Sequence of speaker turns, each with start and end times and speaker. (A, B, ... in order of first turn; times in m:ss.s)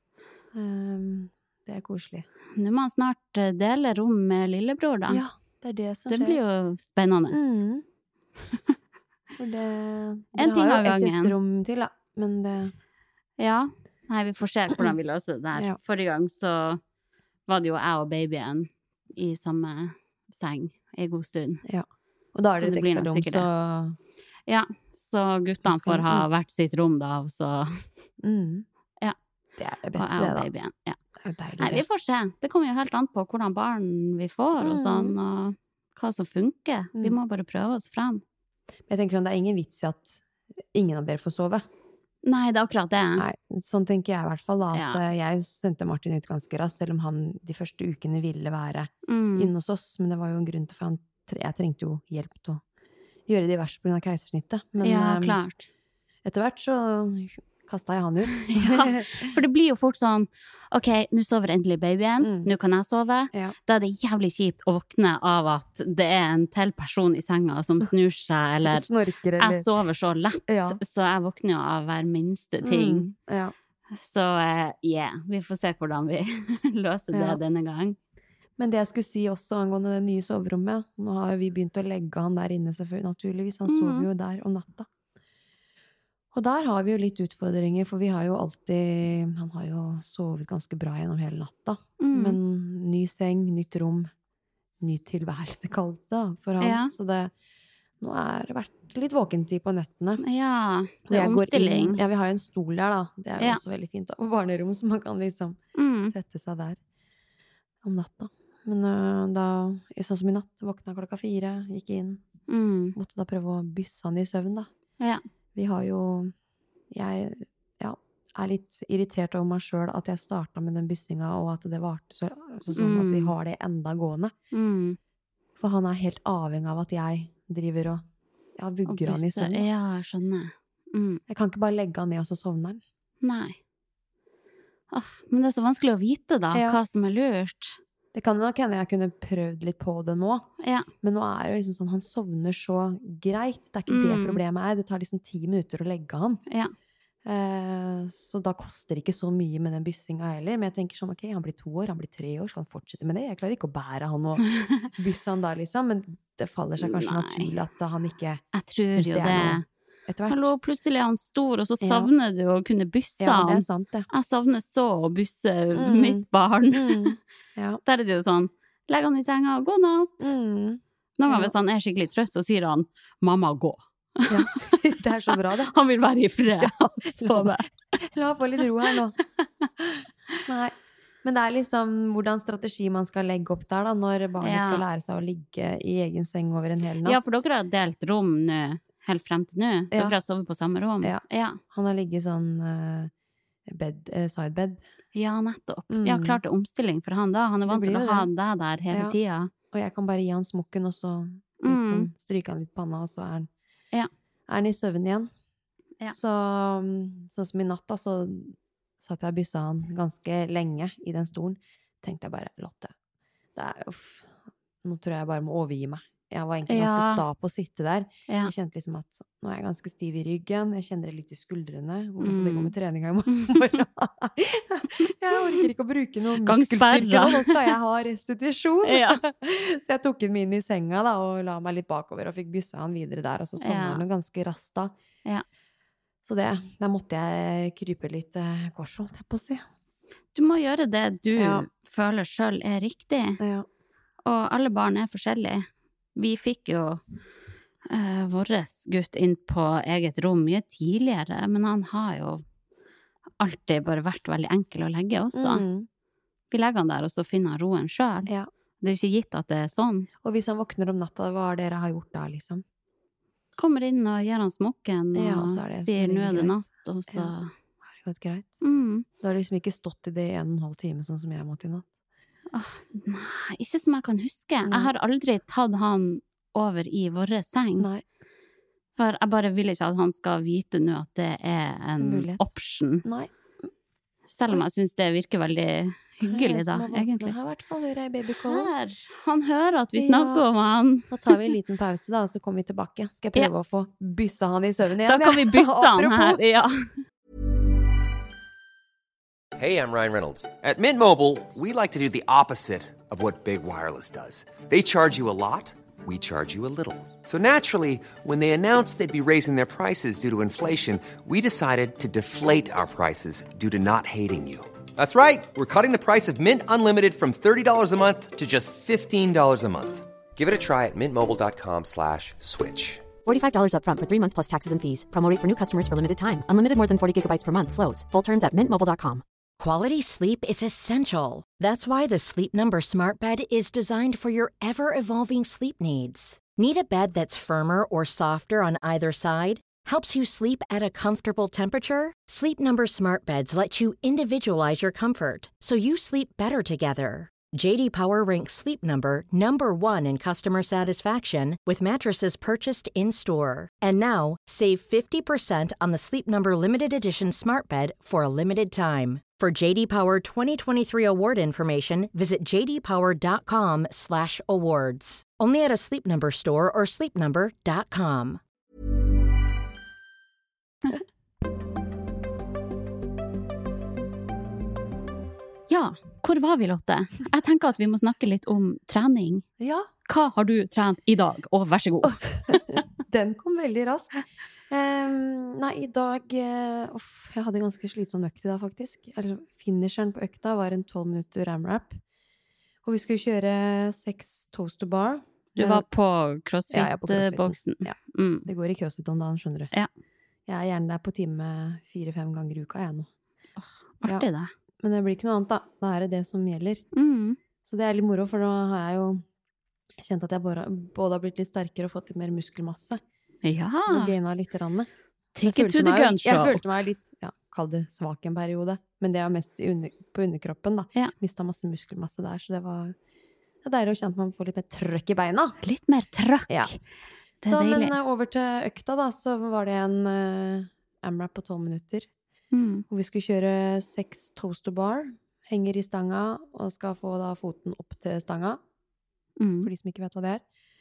0:00.5-0:02.3 A
0:02.6-0:05.2 B
0:05.1-0:06.4 A
0:06.1-0:07.6 B
0:07.3-0:07.8 A
0:09.4-0:12.8 A
0:10.4-0:11.3 B
0:13.4-0:16.8 B
0:17.5-0:21.6 B
0:21.6-0:24.0 A
0:22.6-0:23.5 B
0:24.5-0:27.8 B
0:25.7-0:26.3 A
0:28.2-0:28.7 A
0:29.6-0:30.5 A
0:30.0-0:31.0 B
0:31.2-0:31.8 A
0:31.6-0:38.2 B
0:34.6-0:35.2 A
0:38.9-0:41.7 A
0:42.2-0:43.3 B
0:43.2-0:52.6 A
0:44.7-0:45.0 B
0:49.1-0:49.5 B
0:53.3-0:55.4 A
0:54.8-0:55.7 B
0:56.2-0:59.4 A
0:58.4-1:08.9 B
1:02.2-1:02.5 A
1:08.6-1:09.7 A
1:09.4-1:13.1 B
1:10.5-1:10.8 A
1:12.6-1:13.5 A
1:13.9-1:18.0 B
1:17.1-1:17.4 A
1:18.6-1:24.9 A
1:23.7-1:24.1 B
1:26.3-1:34.1 A
1:32.0-1:32.4 B
1:34.8-1:37.3 A
1:36.6-1:36.9 B
1:38.0-1:40.2 A
1:40.2-1:42.0 B
1:41.1-1:46.8 A
1:45.8-1:46.2 B
1:47.8-1:52.2 A
1:52.5-1:53.0 B
1:53.0-1:54.7 A
1:55.6-1:56.3 A
1:56.9-2:04.3 A
2:02.7-2:03.3 B
2:04.5-2:05.0 B
2:05.6-2:08.0 A
2:08.6-2:09.7 A
2:08.9-2:11.2 B
2:11.3-2:12.8 A
2:13.2-2:13.6 B
2:14.9-2:17.8 B
2:16.5-2:16.8 A
2:18.1-2:20.5 A
2:20.6-2:20.9 B
2:21.0-2:26.4 A
2:23.9-2:24.4 B
2:27.2-2:40.5 A
2:36.8-2:37.5 B
2:38.5-2:39.6 B
2:40.3-2:47.2 B
2:41.8-2:42.1 A
2:43.2-2:44.1 A
2:45.7-2:47.8 A
2:47.8-2:50.3 B
2:50.2-2:51.5 A
2:51.2-2:54.7 B
2:54.3-2:55.7 A
2:55.6-2:57.7 B
2:56.6-2:59.2 A
2:59.8-3:07.2 A
3:04.4-3:04.8 B
3:07.0-3:11.6 B
3:11.0-3:13.1 A
3:13.7-3:14.8 A
3:15.1-3:19.5 B
3:15.9-3:16.4 A
3:17.7-3:18.3 A
3:18.9-3:19.2 A
3:19.7-3:23.5 A
3:21.6-3:22.1 B
3:24.5-3:25.3 A
3:26.0-3:32.9 A
3:33.6-3:54.9 A
3:36.7-3:37.2 B
3:42.2-3:42.7 B
3:46.4-3:47.7 B
3:48.8-3:49.2 B
3:53.6-3:54.0 B
3:56.2-3:59.6 A
4:00.3-4:03.4 B
4:01.4-4:01.7 A
4:03.4-4:03.7 A
4:04.2-4:07.0 B
4:07.9-4:12.4 B
4:13.4-4:15.7 B
4:15.3-4:15.9 A
4:16.5-4:20.1 B
4:20.2-4:22.6 A
4:23.6-4:27.5 B
4:25.2-4:27.3 A
4:27.9-4:28.6 A
4:28.6-4:29.1 B
4:29.2-4:31.9 A
4:32.5-4:37.9 B
4:34.7-4:34.9 A
4:37.8-4:38.0 A
4:39.0-4:43.0 B
4:42.0-4:42.5 A
4:43.0-4:43.3 A
4:44.3-4:47.4 B
4:46.2-4:48.7 A
4:48.4-4:51.5 B
4:50.0-4:50.4 A
4:51.1-4:56.4 A
4:55.1-4:56.9 B
4:59.6-5:23.1 C
5:23.2-5:29.2 D
5:29.6-6:08.4 E
6:15.7-6:19.4 B
6:19.6-6:19.9 A
6:20.1-6:22.8 B
6:22.0-6:32.0 A
6:32.8-6:35.8 A
6:35.6-6:38.5 B
6:36.7-6:39.7 A
6:40.5-6:43.1 A
6:43.6-6:44.5 B
6:44.8-6:46.8 A
6:46.9-6:47.4 B
6:47.6-6:49.2 A
6:50.0-6:53.0 A
6:53.4-6:54.2 B
6:53.8-6:54.9 A
6:55.4-6:56.6 B
6:55.4-7:03.0 A
7:03.6-7:05.6 A
7:05.6-7:06.8 B
7:06.5-7:06.8 A
7:07.4-7:08.0 B
7:07.4-7:12.1 A
7:12.5-7:12.8 B
7:12.9-7:18.6 A
7:19.4-7:19.7 B
7:19.6-7:20.4 A